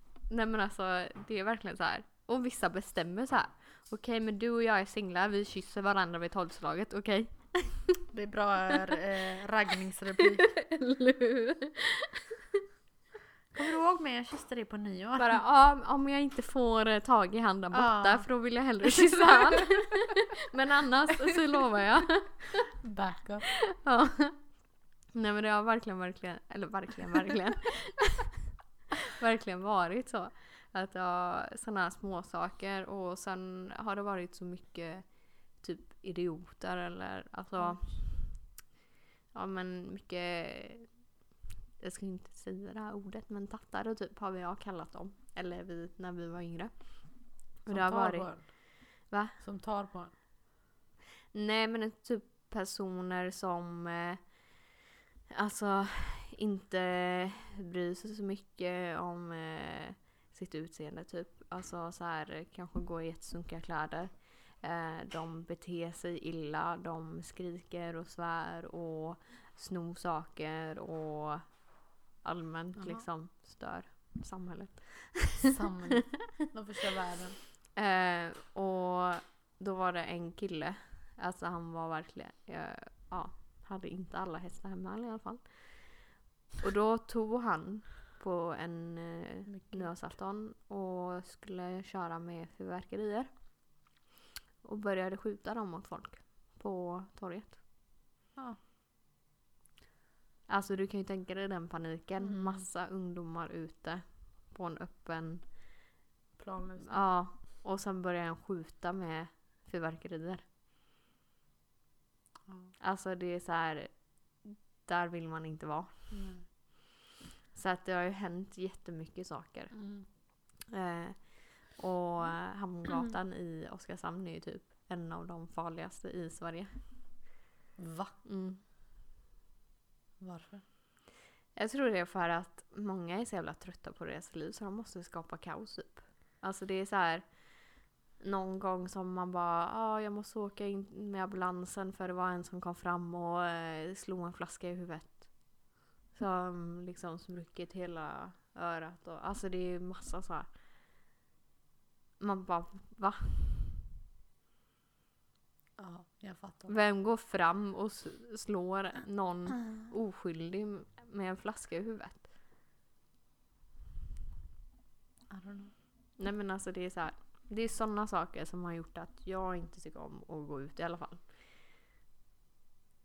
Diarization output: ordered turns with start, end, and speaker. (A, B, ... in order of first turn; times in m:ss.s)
0:00.3-0:08.0 A
0:08.1-0:10.6 B
0:10.2-0:12.4 A
0:13.5-0:15.4 B
0:15.2-0:22.7 A
0:17.7-0:18.3 B
0:18.8-0:19.9 B
0:22.8-0:23.5 B
0:23.7-0:24.5 A
0:25.1-0:28.3 A
0:29.0-0:38.5 A
0:37.6-0:37.9 B
0:39.3-0:40.9 A
0:41.8-0:48.5 A
0:47.7-0:48.7 B
0:49.0-0:49.4 A
0:49.4-0:50.1 B
0:51.3-0:54.5 A
0:55.3-1:11.5 A
1:12.2-1:15.5 A
1:12.8-1:13.0 B
1:15.4-1:17.4 B
1:17.8-1:25.8 A
1:26.6-1:33.3 A
1:29.5-1:29.9 B
1:34.6-1:37.6 A
1:40.5-1:45.5 A
1:42.2-1:42.7 B
1:46.4-1:47.1 B
1:46.8-1:50.4 A
1:52.8-1:56.1 A
1:56.1-1:56.4 B
1:57.5-1:59.8 A
1:59.7-2:00.1 B
2:00.7-2:06.7 A
2:07.8-2:08.2 B
2:08.2-2:08.6 A
2:10.2-2:10.6 B
2:11.6-2:17.7 A
2:18.2-2:25.6 A
2:26.1-2:30.5 A
2:32.2-2:33.6 A
2:35.8-2:36.8 B
2:36.7-2:42.3 A
2:45.3-2:45.7 B
2:46.2-2:51.3 A